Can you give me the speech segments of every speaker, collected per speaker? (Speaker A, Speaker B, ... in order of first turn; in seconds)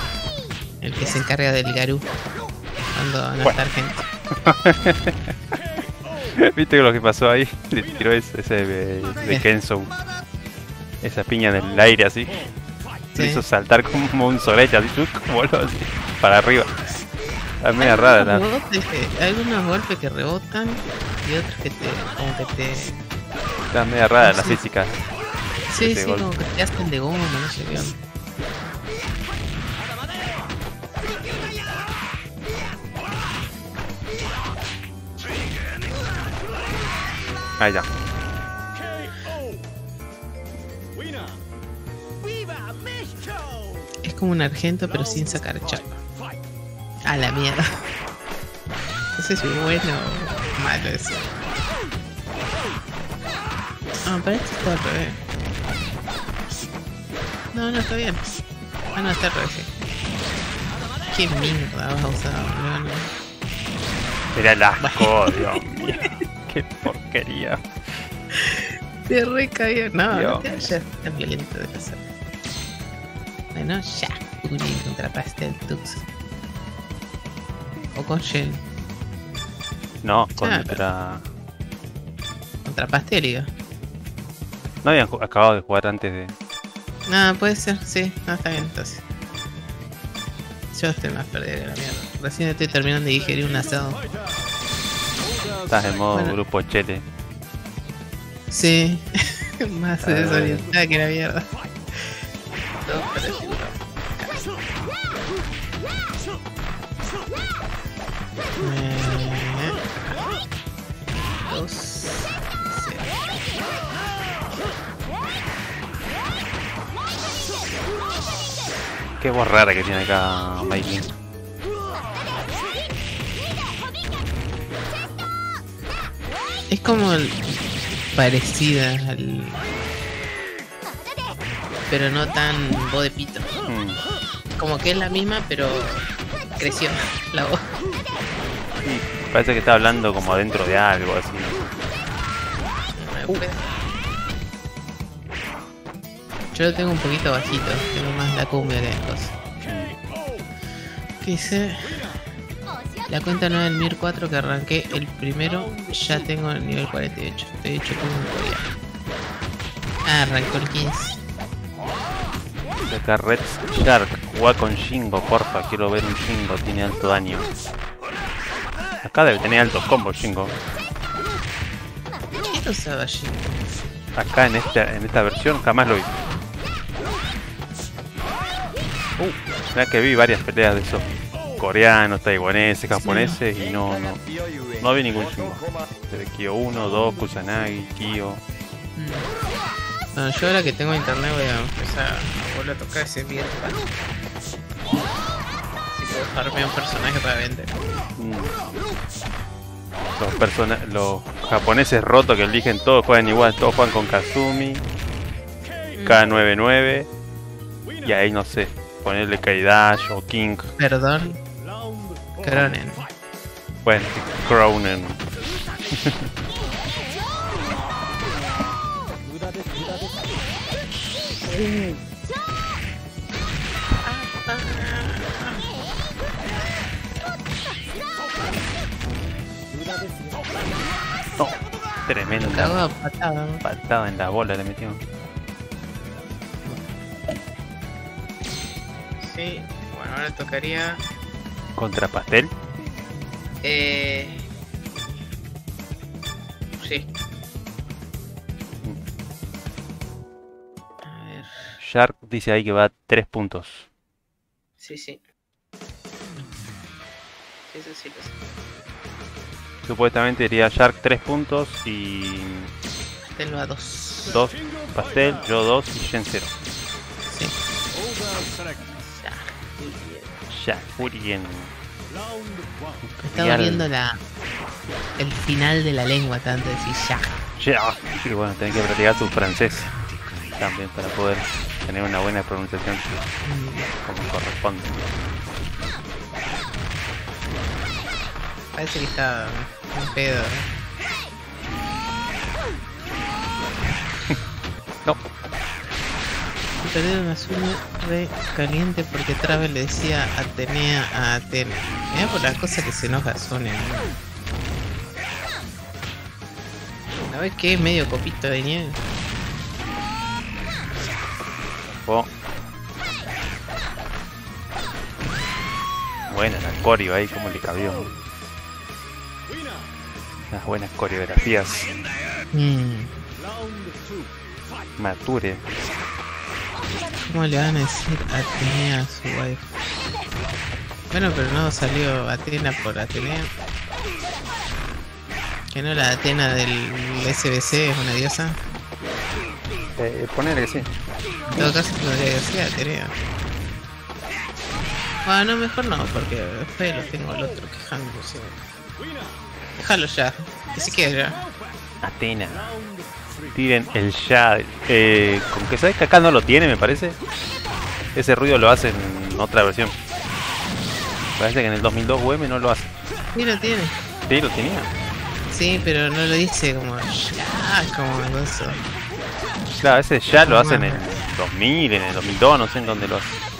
Speaker A: 0.8-2.1, 3.0-4.1, 13.2-13.4, 17.8-23.0, 24.2-24.6, 25.7-28.0, 44.0-46.0, 47.0-47.7, 49.2-51.4, 54.0-55.2, 57.5-58.2, 59.0-59.7, 61.1-63.1, 64.8-65.7, 68.3-72.0, 73.5-76.0, 78.0-78.6, 80.4-80.8, 82.7-83.5, 87.1-89.0, 90.7-94.0, 98.5-99.1, 99.6-102.2, 102.7-104.5, 108.6-110.2, 111.4-113.2, 126.7-127.6, 128.1-129.7, 131.9-133.5, 134.6-137.7, 143.0-143.7, 146.5-149.3, 151.2-152.1, 153.1-158.7, 160.1-161.2, 172.3-173.6, 183.0-183.4, 189.0-189.3, 190.1-193.9, 195.9-197.8, 206.0-206.3, 210.8-211.4, 212.4-213.1, 224.0-225.7, 232.3-233.6, 236.6-236.9, 239.2-241.0, 243.6-244.4, 246.8-247.1, 251.0-251.8, 254.8-255.2, 257.7-258.4, 263.2-264.4, 267.3-267.6, 268.9-271.1, 273.2-274.2, 275.2-277.4, 283.4-283.9, 288.7-290.7, 296.8-304.2, 307.2-309.0, 322.5-323.1, 327.2-329.6, 331.1-333.5, 335.7-338.6, 341.5-343.2, 345.2-348.6, 349.7-351.4, 363.3-364.0, 365.5-368.8, 370.4-371.1
Speaker B: 4.3-5.3, 6.3-9.9, 11.0-12.4, 13.2-16.8, 17.6-18.4, 23.7-25.0, 25.8-26.3, 37.6-37.9, 64.3-67.6, 70.1-70.5, 80.0-81.3, 84.8-86.3, 95.7-97.0, 100.0-100.6, 119.2-121.1, 133.7-134.0, 138.8-141.7, 149.6-150.0, 162.8-167.5, 169.0-170.6, 174.2-176.1, 179.2-184.2, 184.8-188.4, 198.2-198.6, 200.2-204.8, 206.0-207.1, 208.0-210.7, 212.5-212.8, 213.8-215.2, 215.9-216.3, 231.4-232.8, 233.6-235.0, 241.8-242.5, 251.8-253.9, 259.9-262.7, 264.3-266.5, 270.5-271.7, 273.0-273.9, 277.6-279.9, 280.6-283.2, 284.0-285.0, 312.0-312.3, 316.3-318.3, 320.5-321.9, 325.0-325.6, 340.0-340.9, 352.0-352.8, 353.6-357.2, 358.1-359.9, 361.4-363.0, 364.3-364.9, 369.8-373.4